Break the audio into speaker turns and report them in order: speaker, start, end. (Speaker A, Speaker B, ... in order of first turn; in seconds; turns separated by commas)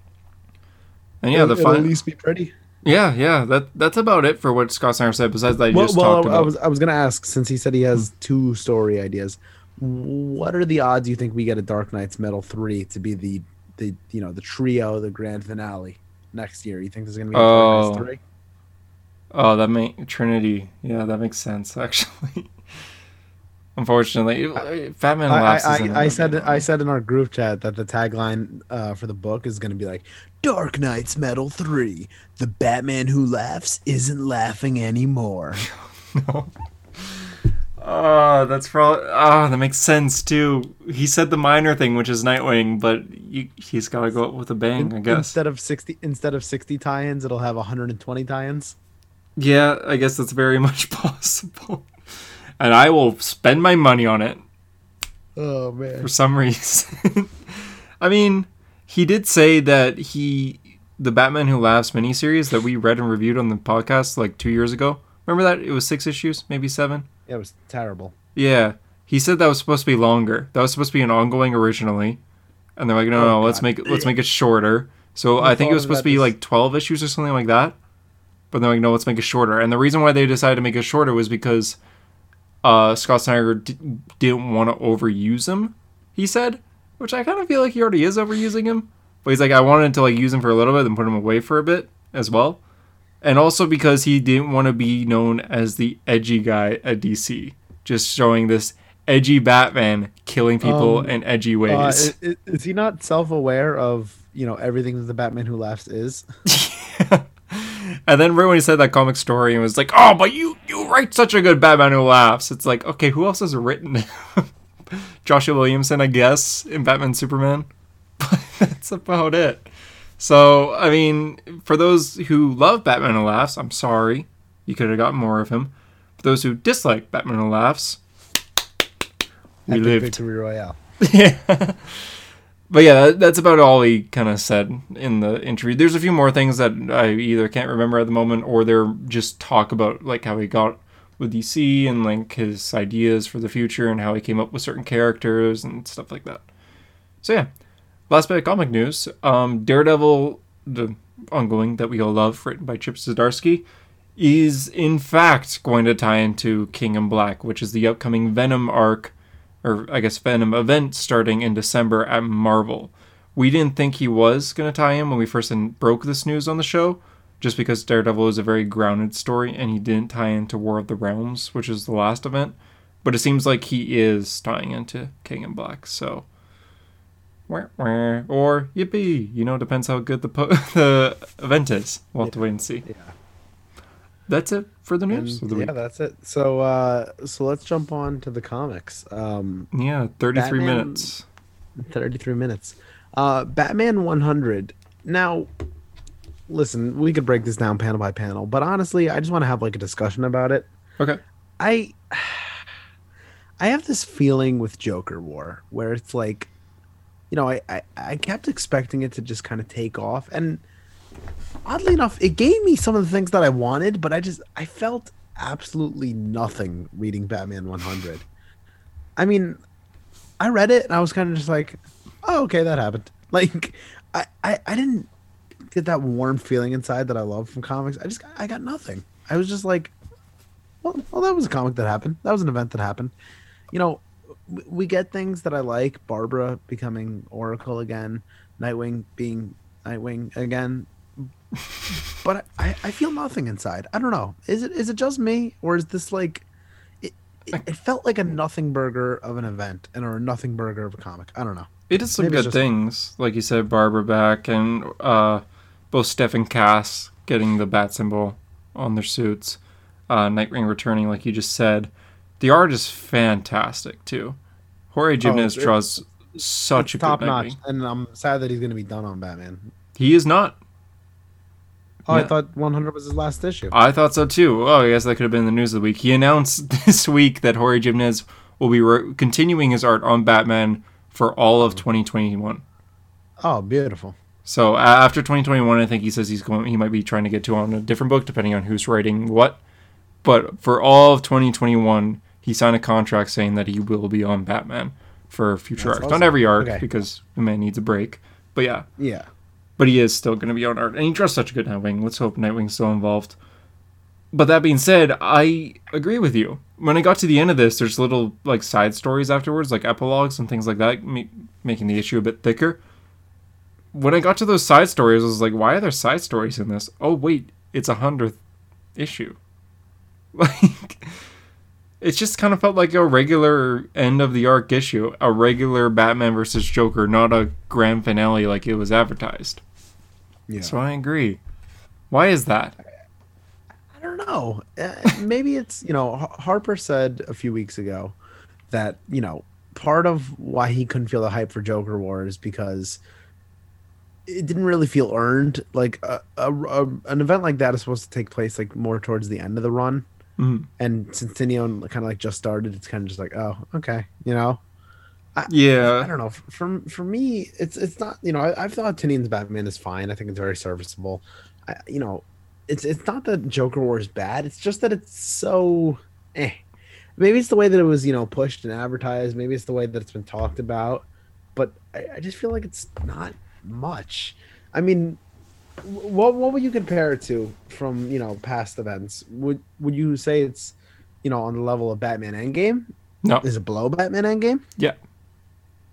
Speaker A: 1.2-1.9, Speaker B: 1.3-2.5, Speaker A: 2.8-6.5, Speaker B: 5.7-18.2, Speaker A: 17.3-18.1, Speaker A: 19.3-22.5, Speaker A: 23.8-26.6, Speaker B: 25.3-35.6, Speaker A: 35.7-45.4, Speaker B: 44.8-48.8, Speaker A: 49.4-51.9, Speaker A: 52.6-54.4, Speaker B: 55.4-56.1, Speaker A: 56.0-67.1, Speaker B: 67.3-68.1, Speaker A: 68.3-72.2, Speaker A: 72.8-77.8, Speaker B: 73.1-74.1, Speaker B: 75.4-76.3, Speaker A: 78.5-81.8, Speaker A: 82.6-92.6, Speaker A: 93.2-102.1, Speaker B: 100.6-101.2, Speaker B: 101.7-106.2, Speaker A: 106.5-117.7, Speaker A: 118.2-128.0, Speaker A: 129.7-130.2, Speaker B: 129.7-130.8, Speaker A: 131.0-132.2, Speaker A: 132.7-146.4, Speaker A: 147.2-147.5, Speaker A: 148.1-153.6, Speaker A: 154.2-176.2, Speaker A: 177.5-182.8, Speaker B: 182.2-183.1, Speaker A: 184.3-185.7, Speaker B: 185.1-189.7, Speaker A: 189.7-191.2, Speaker B: 190.3-191.1, Speaker B: 191.8-195.5, Speaker B: 196.5-200.7, Speaker B: 201.6-202.6, Speaker B: 203.6-206.5, Speaker B: 207.3-210.6, Speaker B: 211.7-218.2, Speaker B: 219.2-219.6, Speaker B: 220.4-225.1, Speaker B: 225.7-229.9, Speaker B: 230.8-233.1, Speaker B: 233.7-240.9, Speaker B: 242.2-246.4, Speaker B: 247.0-252.6, Speaker A: 251.9-264.4, Speaker A: 264.9-267.6, Speaker B: 265.2-265.7, Speaker B: 266.8-269.7, Speaker A: 269.9-270.6, Speaker B: 272.1-273.7, Speaker A: 273.7-282.6, Speaker B: 283.4-284.1, Speaker A: 284.4-289.6, Speaker A: 290.2-298.9, Speaker B: 295.8-296.8, Speaker B: 299.0-299.3, Speaker A: 299.8-303.4, Speaker A: 304.3-312.8, Speaker A: 313.9-318.4, Speaker A: 318.9-319.4, Speaker A: 320.3-321.2, Speaker A: 322.0-329.6, Speaker B: 330.5-330.8, Speaker A: 330.6-331.4, Speaker A: 332.1-332.7, Speaker B: 333.9-338.1, Speaker B: 338.7-343.0, Speaker B: 344.3-350.0, Speaker A: 350.4-350.7, Speaker B: 350.8-354.6, Speaker B: 355.3-366.6, Speaker A: 355.5-356.1, Speaker B: 367.2-375.2, Speaker B: 375.8-382.9, Speaker B: 383.4-384.6